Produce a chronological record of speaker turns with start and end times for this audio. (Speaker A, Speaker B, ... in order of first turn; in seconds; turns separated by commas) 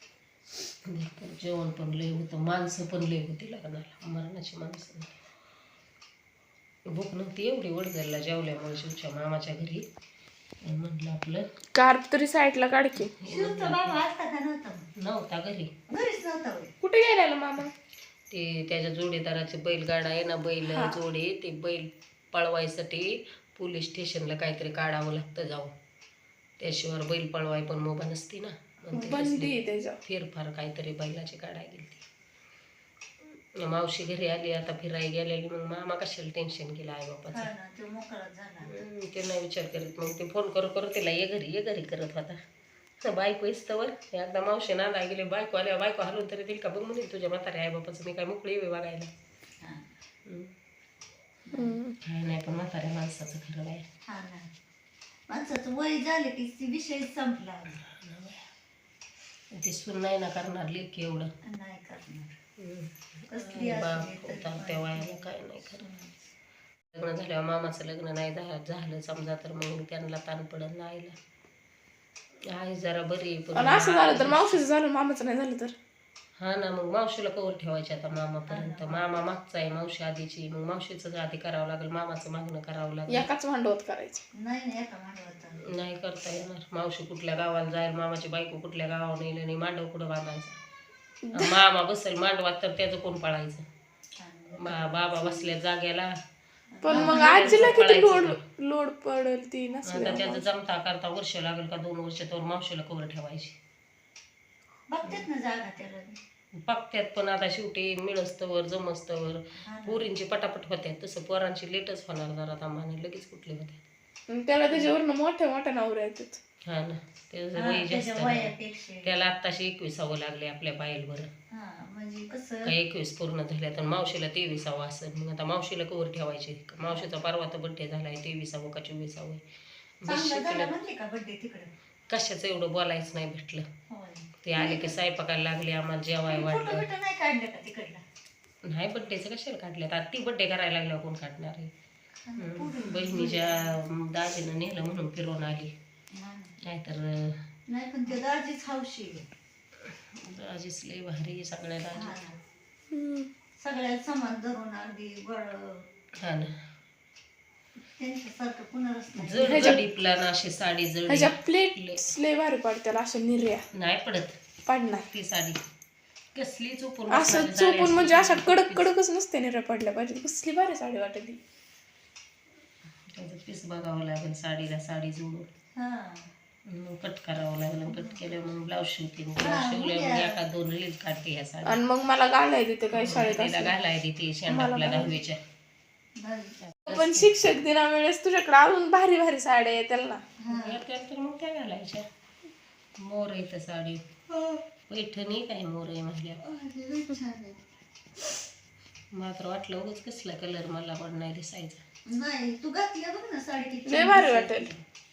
Speaker A: 0.8-5.1, Speaker A: 6.9-9.8, Speaker A: 10.6-11.4, Speaker B: 11.7-13.1, Speaker A: 13.0-14.0, Speaker C: 13.3-14.9, Speaker A: 15.0-15.7, Speaker C: 15.9-16.7, Speaker B: 16.8-17.7, Speaker A: 18.3-25.7, Speaker B: 20.7-20.9, Speaker A: 26.6-32.0, Speaker B: 28.9-30.0, Speaker A: 33.6-37.5, Speaker C: 37.3-38.7, Speaker A: 38.6-42.4, Speaker A: 43.0-49.1, Speaker C: 49.6-49.9, Speaker C: 51.5-51.8, Speaker B: 51.5-52.0, Speaker A: 52.0-53.8, Speaker C: 54.1-54.5, Speaker C: 55.3-57.8, Speaker A: 57.9-58.4, Speaker A: 59.5-61.3, Speaker C: 61.4-62.3, Speaker A: 62.6-65.8, Speaker C: 63.3-66.2, Speaker A: 66.9-71.1, Speaker A: 72.5-74.6, Speaker B: 73.5-75.7, Speaker A: 76.4-83.3, Speaker C: 78.5-79.2, Speaker B: 83.1-84.2, Speaker C: 84.3-85.6, Speaker A: 85.7-90.6, Speaker B: 91.3-91.5, Speaker A: 91.3-93.6, Speaker C: 94.2-94.9, Speaker A: 94.6-96.1, Speaker C: 96.7-97.7, Speaker B: 96.8-100.4, Speaker A: 96.9-98.4, Speaker A: 99.8-103.5, Speaker C: 104.9-106.2, Speaker A: 106.7-113.8, Speaker C: 109.6-110.1, Speaker B: 114.3-116.4, Speaker A: 116.7-121.3, Speaker C: 117.5-119.1, Speaker C: 121.5-122.7, Speaker A: 122.7-129.4, Speaker C: 126.9-127.1, Speaker A: 130.0-130.7, Speaker C: 130.1-131.7, Speaker A: 132.1-133.7, Speaker C: 133.9-135.0, Speaker A: 134.4-136.9, Speaker C: 136.3-138.0, Speaker A: 138.7-141.7, Speaker C: 142.2-143.8, Speaker A: 142.4-145.7, Speaker C: 146.1-146.5, Speaker A: 146.7-147.4, Speaker C: 147.7-149.2, Speaker A: 149.9-152.2, Speaker C: 151.9-152.4, Speaker B: 152.9-153.3, Speaker C: 153.6-155.9, Speaker A: 156.2-156.5, Speaker C: 158.0-159.8, Speaker A: 159.2-162.0, Speaker B: 159.4-159.8, Speaker B: 161.1-163.6, Speaker A: 163.7-164.4, Speaker B: 164.7-165.1, Speaker A: 164.9-165.6, Speaker A: 166.3-168.9, Speaker B: 167.1-171.4, Speaker A: 173.1-175.5, Speaker C: 175.8-176.3, Speaker A: 176.7-181.8, Speaker C: 177.9-178.2, Speaker C: 179.4-180.4, Speaker B: 181.6-183.7, Speaker A: 182.9-185.4, Speaker B: 184.5-185.2, Speaker C: 186.2-186.6, Speaker A: 186.6-187.3, Speaker B: 186.8-190.2, Speaker C: 190.4-190.8, Speaker A: 190.5-192.0, Speaker A: 193.0-196.4, Speaker C: 196.4-197.6, Speaker A: 199.1-201.8, Speaker C: 202.1-204.8, Speaker B: 203.8-204.7